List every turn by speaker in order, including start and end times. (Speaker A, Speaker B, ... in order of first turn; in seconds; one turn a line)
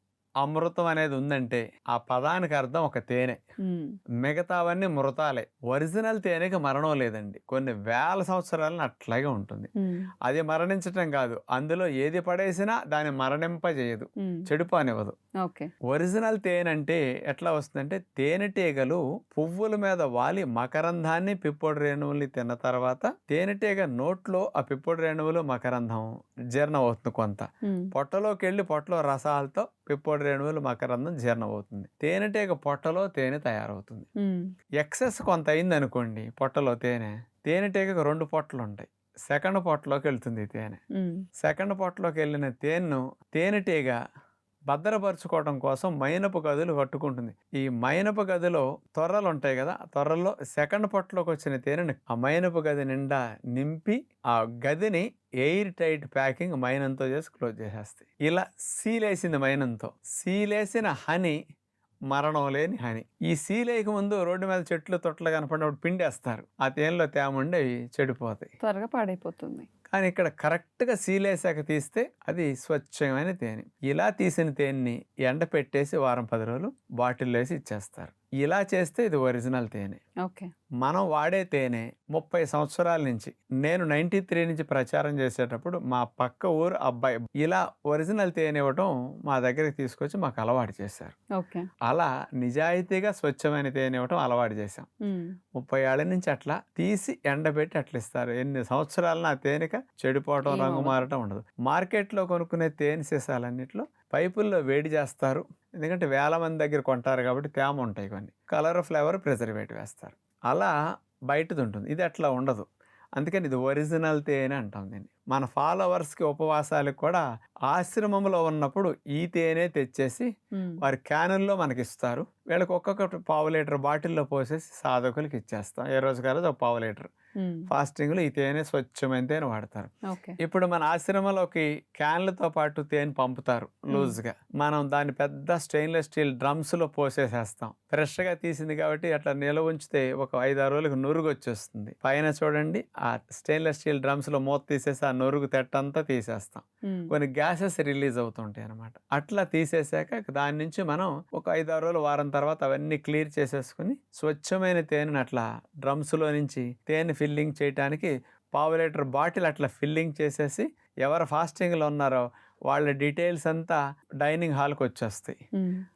Speaker A: 0.4-3.4
Speaker B: 3.6-4.0
Speaker A: 4.2-9.7
Speaker A: 10.2-15.2
Speaker B: 15.4-15.7
Speaker A: 15.9-34.1
Speaker A: 34.8-40.8
Speaker B: 40.9-41.2
Speaker A: 41.4-44.0
Speaker A: 44.7-61.4
Speaker A: 62.1-68.5
Speaker B: 68.6-69.7
Speaker A: 69.9-80.0
Speaker B: 80.2-80.5
Speaker A: 80.8-91.2
Speaker B: 91.4-91.7
Speaker A: 91.8-94.9
Speaker B: 95.1-95.3
Speaker A: 95.6-110.7
Speaker B: 100.5-101.0
Speaker A: 111.3-120.3
Speaker A: 120.8-127.1
Speaker B: 127.4-127.7
Speaker A: 127.7-165.3
Speaker B: 130.1-130.4